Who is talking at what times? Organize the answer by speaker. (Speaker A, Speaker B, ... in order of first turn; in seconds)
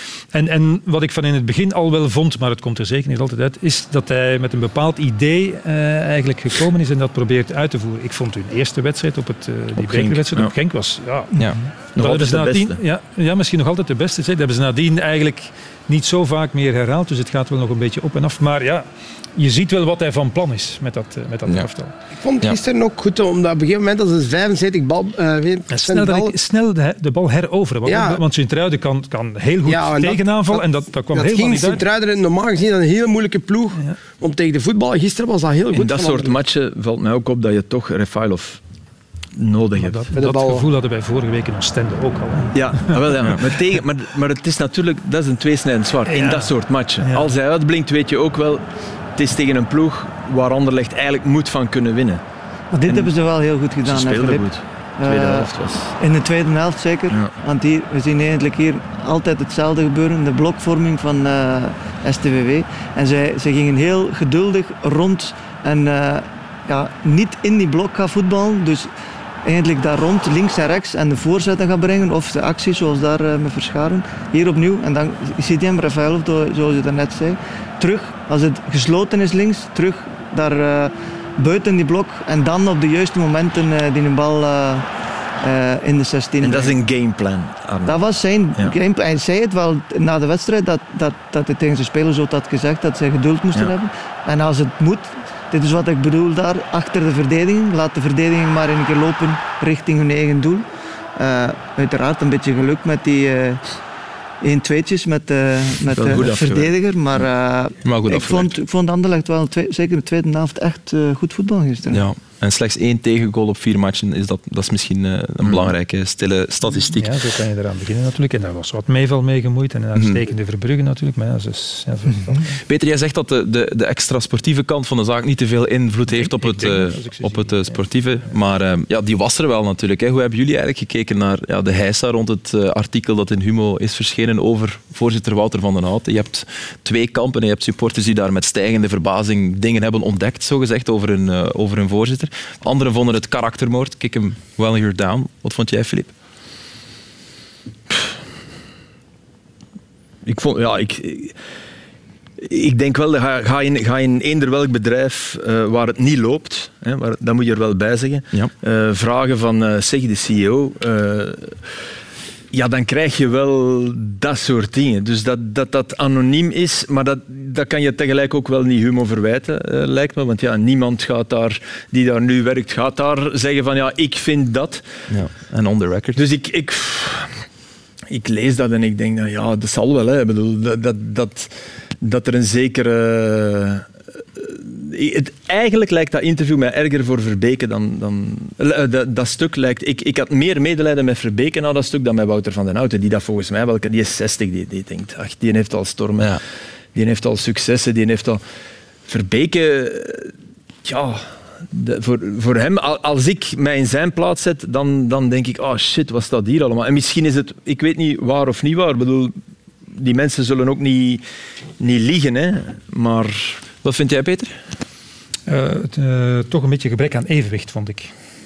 Speaker A: 0.3-21.9, 25.7-31.8, 39.8-43.0, 46.1-46.5, 47.0-47.3, 117.0-122.6, 126.1-127.8, 215.5-218.1
Speaker B: 9.8-10.5, 12.0-12.8, 35.7-38.6, 39.4-40.0, 42.5-48.6, 49.2-52.2, 52.9-53.1, 53.8-56.0, 86.4-88.0, 105.9-106.7, 115.4-115.7, 150.2-151.4, 152.4-161.6, 162.5-174.8, 176.2-177.4, 178.1-196.4, 196.9-198.4, 199.1-200.3, 200.8-209.3, 209.9-211.2, 211.8-213.6
Speaker C: 22.2-26.3, 27.9-28.2, 29.7-36.4, 40.1-40.7
Speaker D: 52.7-68.9, 69.4-84.9, 85.4-86.8, 87.8-100.7, 101.2-103.6, 104.4-112.0
Speaker E: 107.8-108.6, 111.9-117.2, 120.0-120.2, 122.7-146.1, 175.1-176.2, 213.8-214.6